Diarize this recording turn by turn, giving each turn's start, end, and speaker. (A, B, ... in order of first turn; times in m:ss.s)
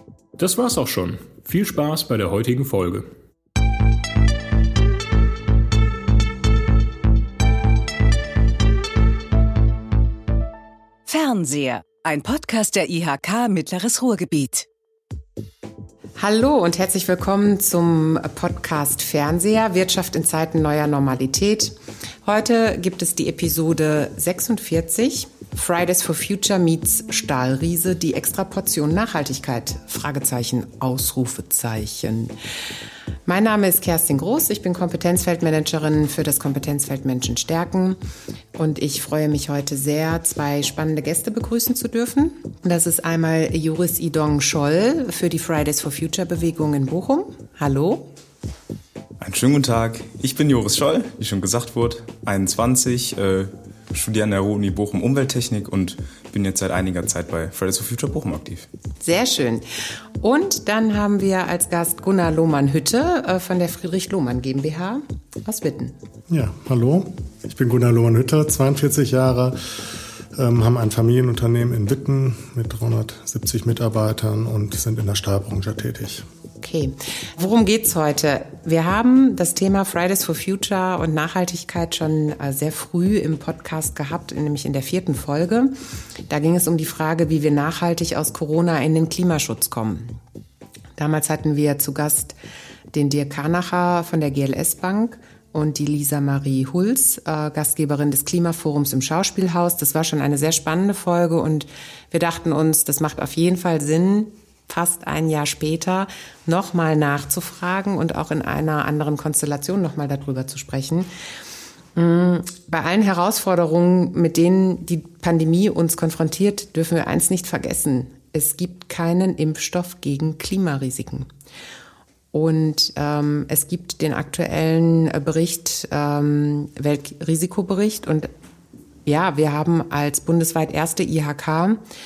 0:00.4-0:03.1 A
0:11.1-0:14.7 B
0:16.2-0:32.3 C
0:33.3-0:38.0 C
0:38.6-0:48.1 C
0:49.2-0:58.7 D
0:59.0-0:59.7 C
1:00.2-1:06.0 C
1:06.3-1:09.7 E
1:10.3-1:16.3 E
1:16.6-1:25.7 C
1:26.3-1:30.2 C
1:31.0-1:32.4 C
1:32.9-1:51.1 C
1:52.0-2:01.3 C
2:02.3-2:08.3 C
2:09.1-2:11.8 C